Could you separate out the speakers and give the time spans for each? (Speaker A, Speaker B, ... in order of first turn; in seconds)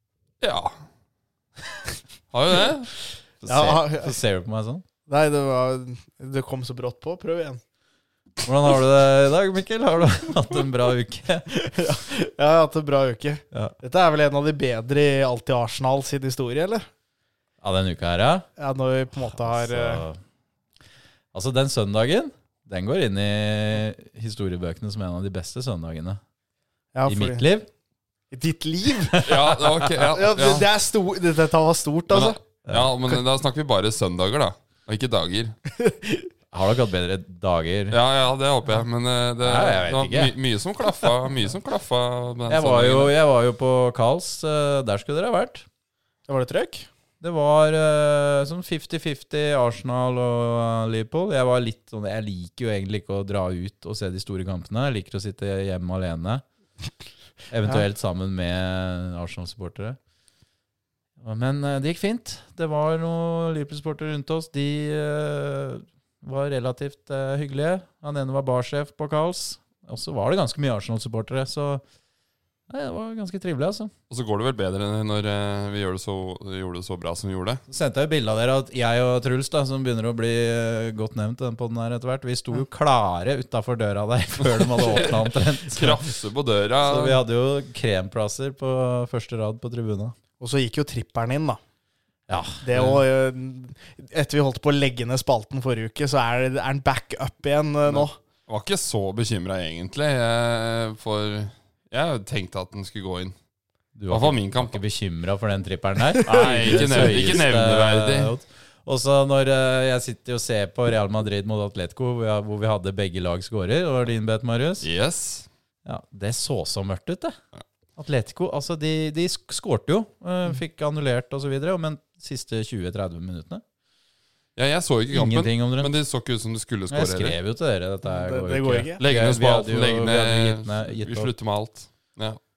Speaker A: 0.4-0.8, 2.3-2.9, 29.2-30.7, 32.1-35.6, 37.9-43.1, 74.1-77.6, 84.4-87.2, 92.7-93.0, 97.9-103.3, 104.1-104.8, 106.3-108.3, 114.8-115.5, 124.6-127.4, 129.0-132.4
Speaker B: 3.4-4.8, 8.4-11.6, 17.6-18.5, 19.2-20.2, 21.3-26.2, 27.1-27.7, 32.7-32.9, 36.5-38.0, 39.4-40.3, 42.5-45.7, 47.2-56.4, 57.5-60.0, 61.2-71.8, 72.7-73.9, 77.7-86.1, 86.8-90.2, 92.3-92.6, 104.0-114.9, 115.8-117.4, 118.0-123.6, 125.1-126.0, 126.9-131.3
Speaker C: 3.5-4.2, 5.1-7.6, 11.5-16.9, 18.6-20.0, 26.9-27.4, 28.3-32.4, 35.8-36.3, 46.3-46.9, 90.4-91.6, 92.6-98.2, 106.1-107.2, 128.1-129.0